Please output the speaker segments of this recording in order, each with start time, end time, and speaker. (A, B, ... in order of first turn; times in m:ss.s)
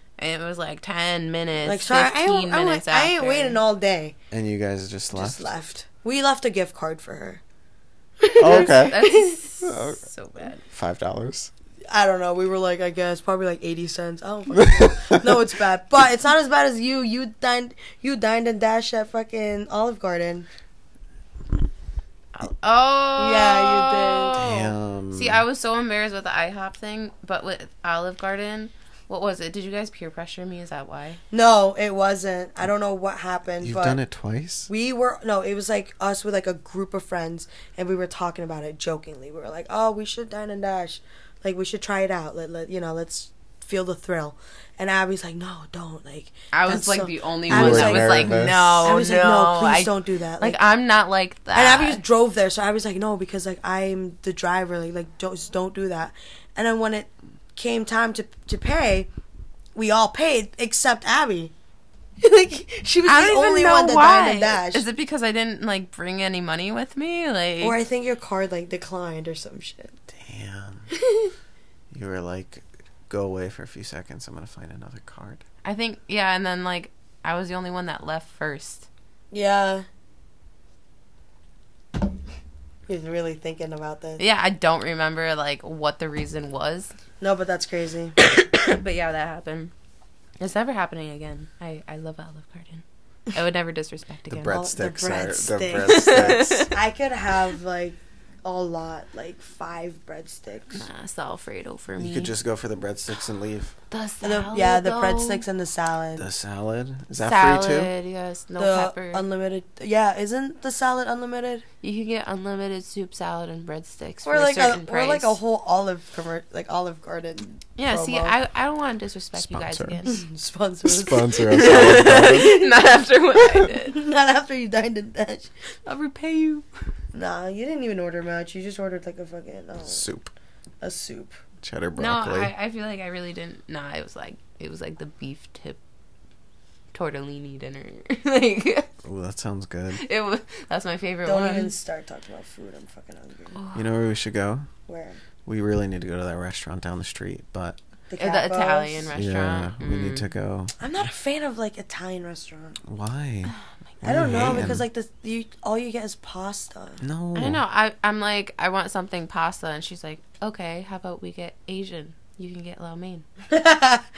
0:00.2-0:03.6 A
0:01.6-0:04.2 B
0:04.3-0:05.5 C
0:05.1-0:07.4 B
0:08.2-0:09.3 B
0:08.4-0:09.1 C
0:08.4-0:10.6 A
0:09.6-0:10.0 C
0:10.6-0:11.5 C
0:11.9-0:20.5 B
0:14.5-0:15.4 C
0:22.3-0:31.2 A
0:23.2-0:24.4 B
0:24.4-0:25.4 C
0:31.3-0:34.0 B
0:33.6-0:34.7 C
0:34.7-0:50.6 B
0:46.5-0:52.0 A
0:47.5-0:48.9 C
0:51.5-0:59.1 B
0:59.7-1:01.5 B
1:02.2-1:04.8 B
1:03.0-1:07.8 A
1:07.6-1:09.9 B
1:10.1-1:10.9 C
1:11.9-1:15.4 C
1:15.6-1:18.9 A
1:19.3-1:19.8 B
1:22.9-1:24.2 B
1:24.2-1:26.9 A
1:27.2-1:28.2 B
1:28.2-1:29.7 A
1:30.4-1:34.6 A
1:34.3-1:36.6 C
1:34.5-1:40.8 B
1:35.8-1:36.8 A
1:40.7-1:42.3 A
1:42.0-1:43.7 C
1:43.9-1:45.4 A
1:44.2-1:46.2 B
1:46.2-1:47.9 C
1:47.2-1:49.2 A
1:48.6-1:51.6 B
1:51.8-1:55.4 A
1:54.2-1:58.3 B
1:57.8-2:00.2 A
1:59.4-2:00.0 C
2:00.0-2:02.5 B
2:00.8-2:02.6 C
2:01.5-2:04.0 A
2:03.7-2:05.5 B
2:05.8-2:06.7 A
2:07.1-2:10.1 B
2:09.8-2:10.3 C
2:10.8-2:11.4 B
2:11.6-2:12.5 C
2:12.0-2:15.8 A
2:16.9-2:18.9 A
2:19.0-2:20.0 C
2:19.9-2:21.7 A
2:21.2-2:23.6 B
2:23.5-2:23.9 A
2:23.7-2:24.7 C
2:24.9-2:25.2 B
2:25.4-2:27.8 C
2:28.1-2:29.1 B
2:28.2-2:30.3 A
2:29.1-2:30.7 C
2:30.8-2:32.8 B
2:32.8-2:34.8 C
2:34.0-2:37.0 B
2:37.0-2:37.6 C
2:37.3-2:43.2 A
2:43.5-2:44.1 B